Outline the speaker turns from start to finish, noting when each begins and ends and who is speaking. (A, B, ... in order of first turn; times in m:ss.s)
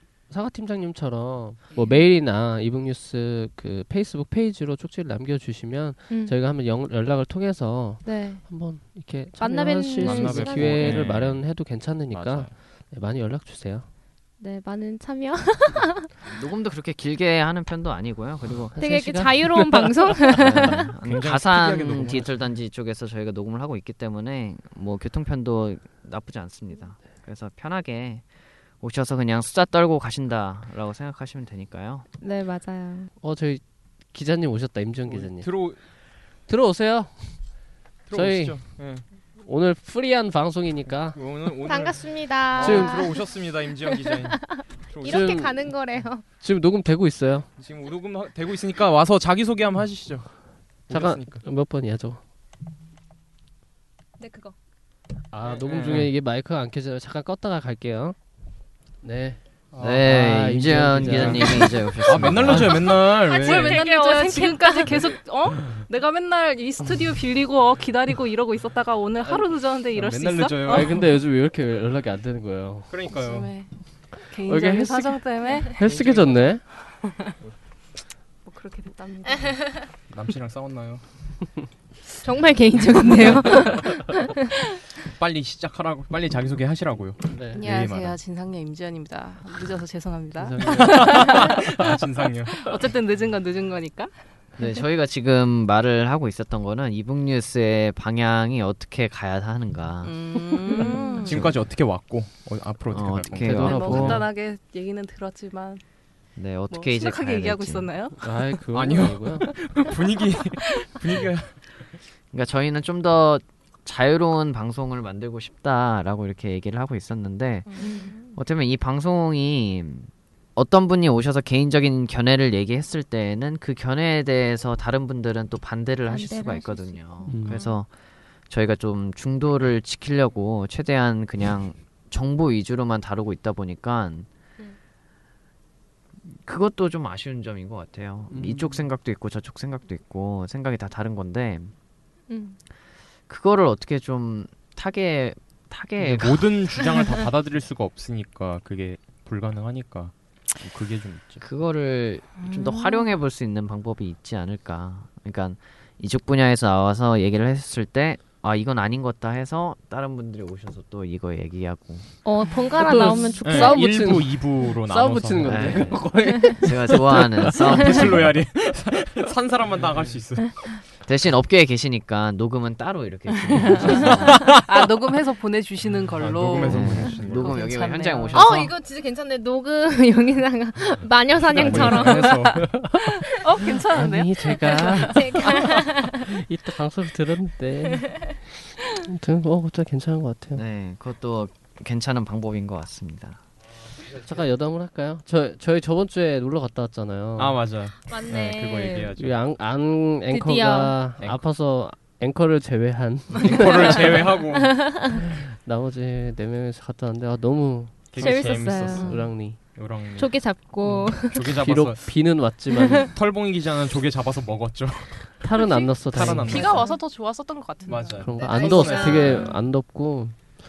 0:00.3-0:13.9 A
0:06.1-0:06.4 B
0:08.0-0:08.5 B
0:09.4-0:11.1 B
0:10.0-0:12.5 C
0:14.4-0:16.1 B
0:16.2-0:18.7 D
0:18.7-0:20.3 A
0:18.8-0:20.9 B
0:20.4-0:28.2 D
0:20.8-0:22.4 C
0:28.8-0:32.1 D
0:32.2-0:33.1 B
0:33.2-0:35.5 A
0:35.1-0:35.8 C
0:36.5-0:38.8 A
0:38.1-0:39.0 C
0:39.4-0:41.2 A
0:41.0-0:45.5 C
0:41.6-0:46.2 B
0:42.6-0:43.0 A
0:45.0-0:47.5 A
0:47.6-0:51.4 C
0:50.9-0:52.2 A
0:54.2-0:54.5 B
0:55.3-0:58.2 A
0:55.5-0:56.1 C
0:59.0-1:01.8 A
0:59.8-1:03.0 D
1:01.0-1:01.4 C
1:02.0-1:03.8 C
1:03.0-1:11.0 E
1:03.2-1:05.0 B
1:09.9-1:10.9 C
1:10.7-1:12.9 A
1:12.9-1:13.5 C
1:13.1-1:15.8 E
1:14.4-1:16.6 A
1:15.8-1:16.3 C
1:17.0-1:17.3 E
1:18.4-1:19.7 E
1:20.1-1:21.0 C
1:22.2-1:24.2 B
1:23.3-1:23.6 C
1:25.2-1:28.2 C
1:27.3-1:27.6 A
1:27.6-1:31.8 E
1:30.4-1:31.3 A
1:30.6-1:32.7 C
1:32.5-1:34.1 E
1:34.6-1:40.3 D
1:40.0-1:41.4 E
1:40.7-1:41.3 B
1:41.2-1:44.2 C
1:41.3-1:41.6 D
1:42.9-1:44.2 D
1:43.4-1:44.2 A
1:43.5-1:45.8 E
1:46.4-1:47.9 D
1:46.7-1:48.3 E
1:48.2-1:49.5 A
1:48.7-1:51.7 C
1:52.3-2:07.9 D
1:57.7-1:58.3 E
1:57.8-1:58.2 B
2:06.1-2:07.7 B
2:07.3-2:07.6 A
2:08.5-2:14.3 D
2:16.3-2:21.7 D
2:18.3-2:18.8 A
2:22.3-2:22.6 B
2:23.3-2:26.5 D
2:26.0-2:31.4 C
2:31.4-2:42.1 D
2:32.4-2:33.1 E
2:42.2-2:43.8 B
2:42.8-2:47.5 A
2:43.4-2:46.0 C
2:45.4-2:48.3 D
2:47.4-2:50.8 C
2:51.0-2:54.4 D
2:53.5-2:58.6 E
2:53.8-2:54.9 C
2:55.8-2:57.7 C
2:56.6-2:58.7 D
2:58.3-3:02.6 B
3:01.5-3:02.7 C
3:01.6-3:02.1 A
3:02.1-3:02.5 E
3:02.6-3:03.0 A
3:03.4-3:05.4 E
3:03.9-3:05.6 A
3:05.0-3:06.2 B
3:06.2-3:08.3 A
3:09.0-3:10.6 A
3:10.6-3:13.4 D
3:14.1-3:17.6 A
3:17.4-3:19.4 C
3:18.1-3:19.1 B
3:19.2-3:24.3 A
3:20.3-3:21.0 B
3:23.4-3:25.1 C
3:24.6-3:25.1 B
3:25.1-3:29.6 A
3:28.1-3:29.1 C
3:28.2-3:29.1 B
3:29.0-3:29.3 E
3:29.7-3:32.4 C
3:30.2-3:31.5 B
3:30.8-3:33.1 A
3:32.7-3:33.1 B
3:33.0-3:35.4 C
3:35.4-3:36.8 A
3:35.6-3:39.6 E
3:36.1-3:36.9 C
3:37.9-3:39.5 C
3:38.2-3:40.5 A
3:38.4-3:39.5 B